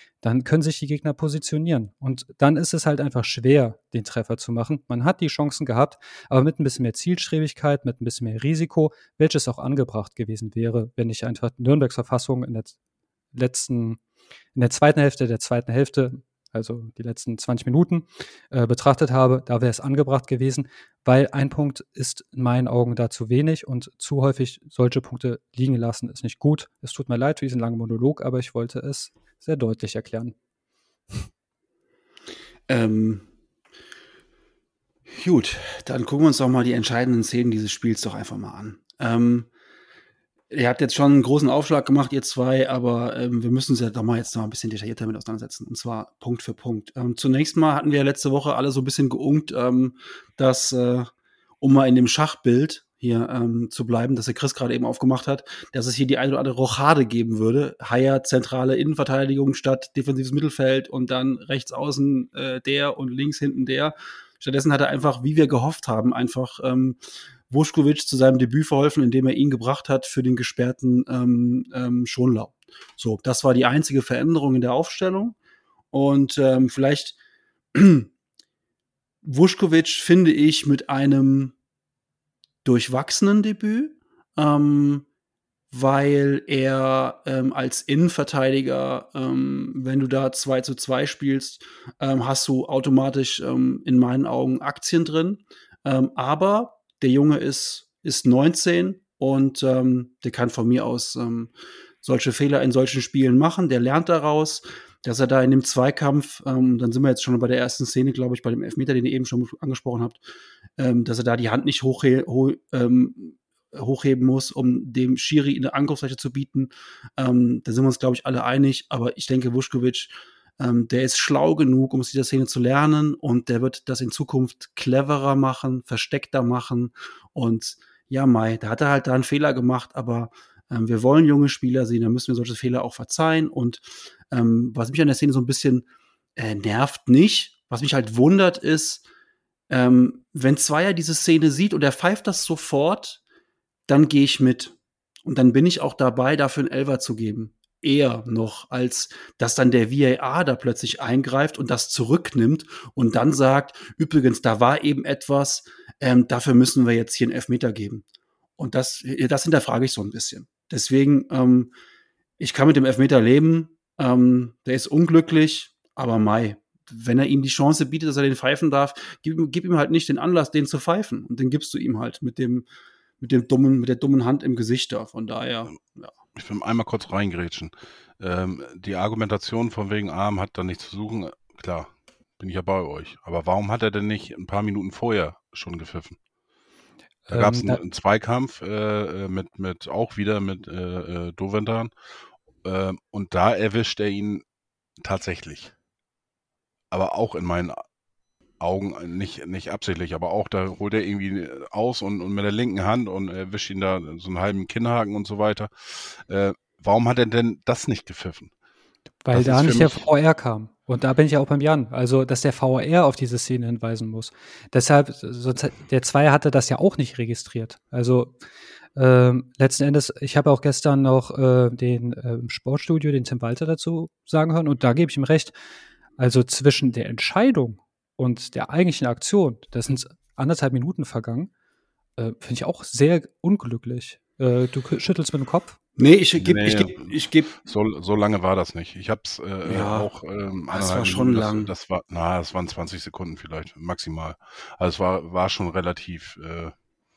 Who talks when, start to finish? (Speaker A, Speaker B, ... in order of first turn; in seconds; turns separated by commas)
Speaker A: 0.2-12.8, Speaker A: 13.3-14.0, Speaker A: 14.6-30.4, Speaker B: 32.7-33.3, Speaker B: 35.1-39.5, Speaker B: 40.5-75.4, Speaker B: 75.9-77.2, Speaker B: 77.7-78.1, Speaker B: 79.2-81.5, Speaker B: 82.7-85.1, Speaker B: 85.7-110.2, Speaker B: 110.8-139.0, Speaker B: 139.7-143.2, Speaker B: 143.9-158.1, Speaker B: 158.6-161.7, Speaker B: 162.4-172.7, Speaker B: 173.2-176.1, Speaker C: 176.3-186.2, Speaker A: 187.3-187.8, Speaker C: 187.3-191.9, Speaker C: 192.6-194.4, Speaker C: 195.0-195.7, Speaker C: 196.9-197.8, Speaker C: 198.6-208.5, Speaker A: 209.3-218.3, Speaker C: 209.3-210.1, Speaker A: 219.0-225.5, Speaker A: 226.2-231.5, Speaker A: 232.2-235.8, Speaker B: 236.0-237.5, Speaker C: 236.4-246.7, Speaker B: 239.7-240.1, Speaker B: 240.7-241.7